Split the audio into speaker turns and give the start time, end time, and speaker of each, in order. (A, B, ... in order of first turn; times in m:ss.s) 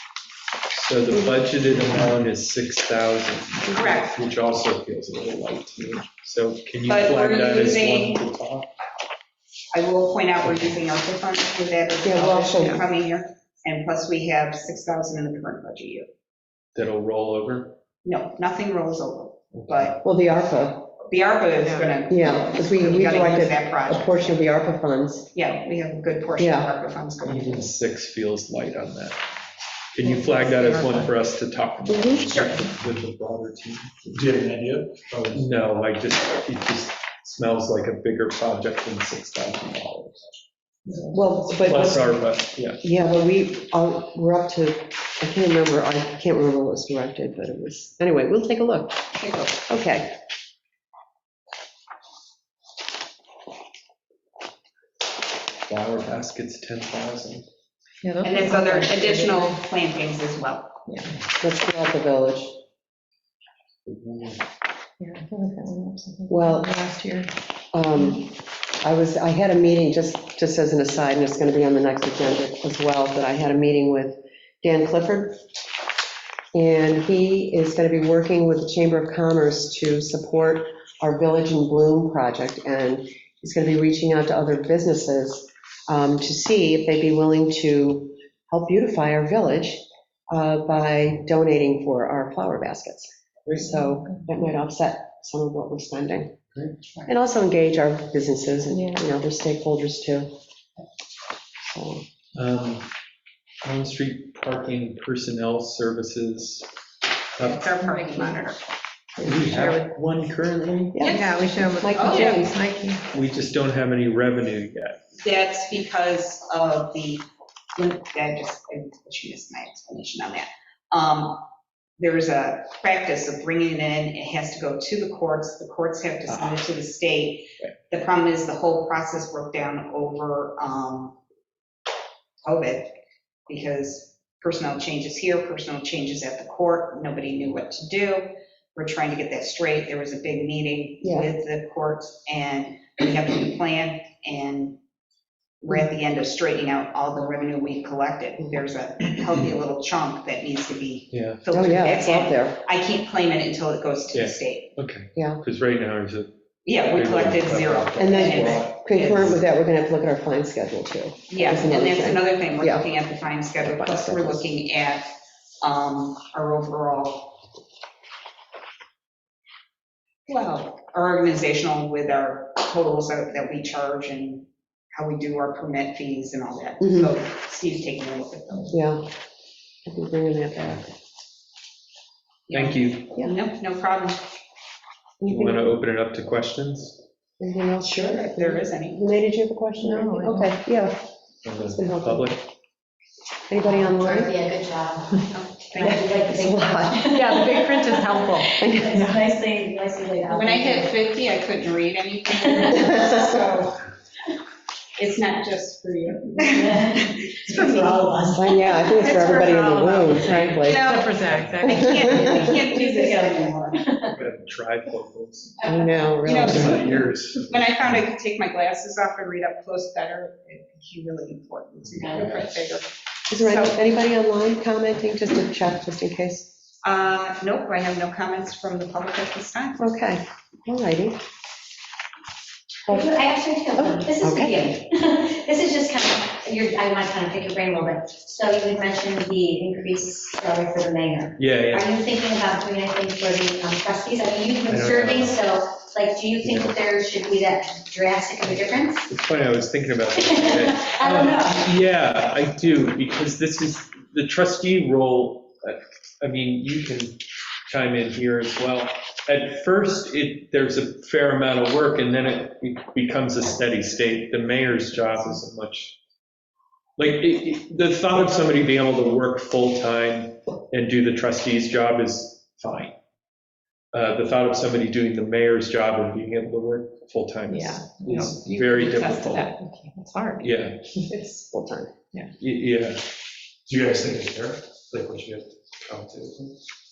0:00.7-0:08.7 A
0:01.1-0:01.5 B
0:03.7-0:04.1 C
0:06.9-0:08.2 C
0:09.7-0:16.1 C
0:10.4-0:10.8 A
0:12.0-0:12.9 B
0:16.8-0:17.7 A
0:18.0-0:20.0 C
0:19.5-0:19.9 A
0:20.0-0:20.8 B
0:21.0-0:24.4 C
0:21.6-0:22.0 D
0:22.1-0:25.3 B
0:25.3-0:27.7 C
0:26.4-0:26.7 B
0:27.2-0:29.2 A
0:29.9-0:34.1 A
0:30.0-0:31.1 D
0:31.9-0:32.6 B
0:34.1-0:35.5 E
0:35.3-0:40.3 A
0:41.0-0:42.2 B
0:41.6-0:42.8 A
0:42.8-0:49.0 B
0:49.2-0:49.5 C
0:49.7-0:50.1 B
0:55.7-0:57.4 A
0:58.0-0:59.6 D
0:58.2-1:00.8 C
1:00.9-1:01.1 D
1:01.4-1:02.6 B
1:03.9-1:04.4 A
1:05.0-1:07.3 D
1:06.3-1:06.8 B
1:07.7-1:15.4 B
1:16.5-1:36.4 B
1:33.8-1:34.3 D
1:37.1-1:40.3 B
1:38.7-1:39.0 D
1:41.6-1:42.0 B
1:42.4-1:42.9 A
1:43.6-1:46.7 A
1:47.4-1:47.7 A
1:47.4-1:48.6 C
1:49.2-1:51.0 A
1:49.4-1:49.9 D
1:50.9-1:52.6 B
1:51.0-1:51.4 C
1:51.1-1:53.0 D
1:51.9-1:52.4 C
1:53.1-1:55.0 A
1:55.2-1:57.2 C
1:57.8-2:01.4 C
2:02.0-2:11.2 C
2:06.3-2:06.6 A
2:12.4-2:12.9 C
2:13.5-2:24.8 C
2:21.0-2:21.3 B
2:25.6-2:34.8 C
2:31.1-2:31.4 A
2:31.5-2:32.6 B
2:34.1-2:39.4 A
2:35.2-2:35.4 B
2:36.6-2:39.4 C
2:38.0-2:42.9 B
2:41.3-2:45.1 C
2:43.6-2:44.5 B
2:45.6-2:47.4 C
2:50.3-2:58.8 C
2:56.8-2:57.1 B
2:58.7-2:59.1 B
2:59.9-3:01.0 B
3:02.5-3:04.2 C
3:02.5-3:03.1 A
3:05.2-3:05.7 B
3:05.2-3:07.0 A
3:07.4-3:11.0 B
3:07.8-3:09.0 C
3:09.8-3:10.6 D
3:11.4-3:12.5 A
3:11.6-3:12.3 B
3:13.5-3:14.4 B
3:13.6-3:20.9 F
3:15.3-3:16.2 C
3:15.8-3:17.6 B
3:17.1-3:19.2 D
3:18.5-3:19.1 B
3:20.3-3:23.8 C
3:22.4-3:23.5 F
3:22.8-3:23.2 B
3:25.0-3:33.8 C
3:26.4-3:29.6 F
3:28.3-3:31.0 B
3:29.6-3:32.6 D
3:31.3-3:31.6 A
3:31.6-3:32.5 B
3:32.3-3:34.1 F
3:34.0-3:38.0 A
3:35.6-3:36.1 F
3:35.6-3:37.0 B
3:36.2-3:43.8 C
3:42.0-3:42.4 F
3:43.3-3:46.5 B
3:46.8-3:49.9 C
3:49.8-3:51.2 B
3:52.9-3:53.2 B
3:52.9-4:09.1 F
3:53.7-3:54.7 B
4:01.4-4:01.9 A
4:04.7-4:05.4 A
4:06.4-4:06.8 A
4:09.1-4:26.0 A
4:10.2-4:11.7 F
4:27.0-4:32.9 A
4:33.9-4:39.5 A
4:37.5-4:40.6 D
4:40.4-4:40.8 A
4:41.1-4:41.9 B
4:42.4-4:43.1 A
4:43.7-4:45.4 E
4:45.4-4:46.5 A